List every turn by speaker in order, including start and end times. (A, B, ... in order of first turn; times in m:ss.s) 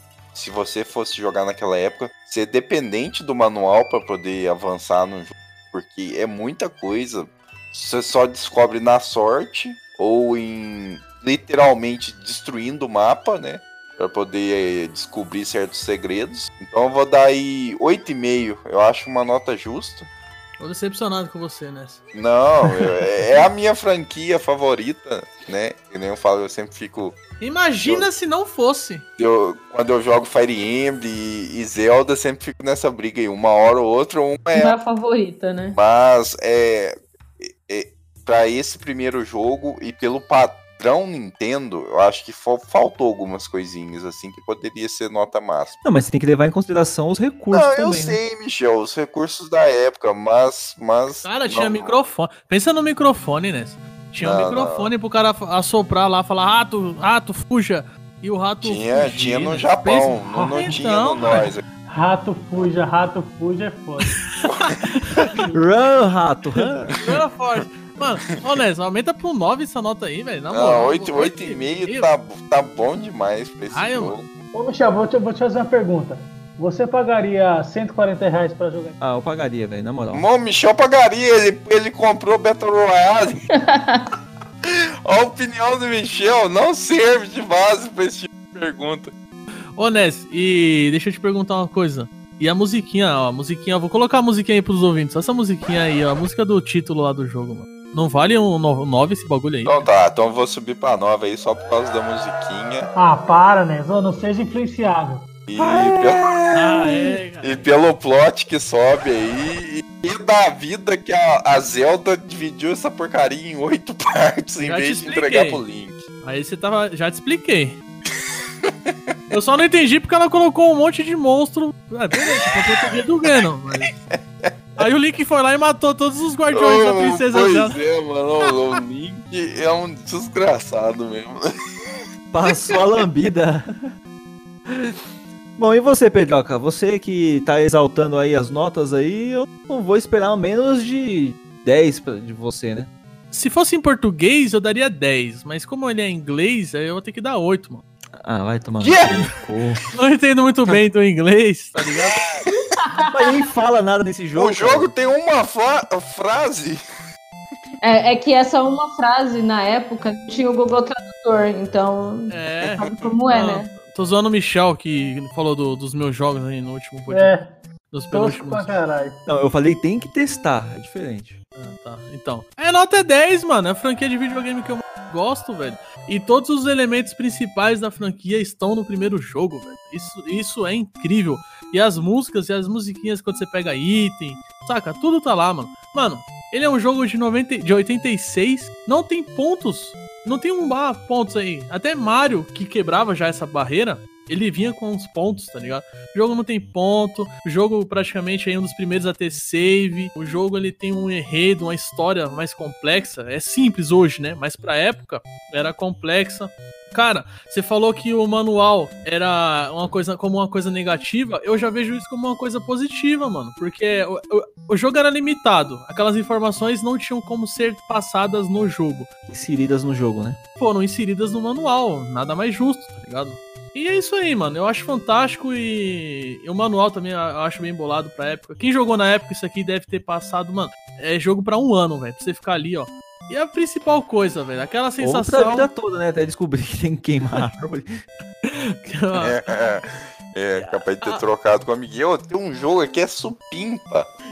0:00.3-0:20.1 A
0:20.6-0:22.0 B
0:22.1-0:27.2 A
0:27.4-0:29.0 B
0:27.8-0:28.1 A
0:29.2-0:34.8 A
0:34.5-0:35.8 C
0:35.7-0:45.8 A
0:45.8-0:48.2 D
0:47.5-0:51.9 A
0:51.2-1:01.5 B
0:54.2-0:54.9 A
0:58.6-1:01.6 A
1:00.3-1:00.7 E
1:01.8-1:04.1 E
1:04.6-1:05.3 B
1:05.5-1:07.0 D
1:07.0-1:12.1 B
1:10.5-1:14.3 A
1:13.7-1:14.2 B
1:14.5-1:19.0 E
1:19.0-1:20.2 D
1:20.1-1:23.4 A
1:23.5-1:24.1 C
1:24.6-1:29.1 A
1:29.8-1:39.9 B
1:39.6-1:42.9 A
1:42.9-1:45.2 E
1:45.5-1:46.4 A
1:45.6-1:47.2 D
1:46.5-1:47.7 B
1:47.4-1:56.0 A
1:54.6-1:55.6 B
1:56.2-1:57.8 B
1:58.6-1:59.1 A
1:59.3-2:03.9 B
2:02.4-2:03.0 A
2:04.1-2:04.8 A
2:04.8-2:07.8 B
2:06.5-2:11.4 A
2:12.3-2:13.9 D
2:14.7-2:14.9 D
2:15.6-2:22.9 D
2:23.3-2:27.8 B
2:28.2-2:29.8 D
2:28.8-2:29.2 A
2:29.9-2:32.2 B
2:32.1-2:32.5 A
2:32.7-2:33.4 C
2:33.1-2:34.9 D
2:34.3-2:36.8 A
2:37.8-2:43.7 C
2:42.3-2:47.3 B
2:47.1-2:47.5 E
2:47.9-2:48.7 B
2:48.1-2:49.2 E
2:49.2-2:51.4 D
2:51.6-3:39.1 B
3:39.3-3:40.4 D
3:40.6-3:55.7 B
3:55.0-3:58.0 D
3:58.4-3:59.4 B
3:59.1-4:04.1 A
4:00.6-4:01.2 B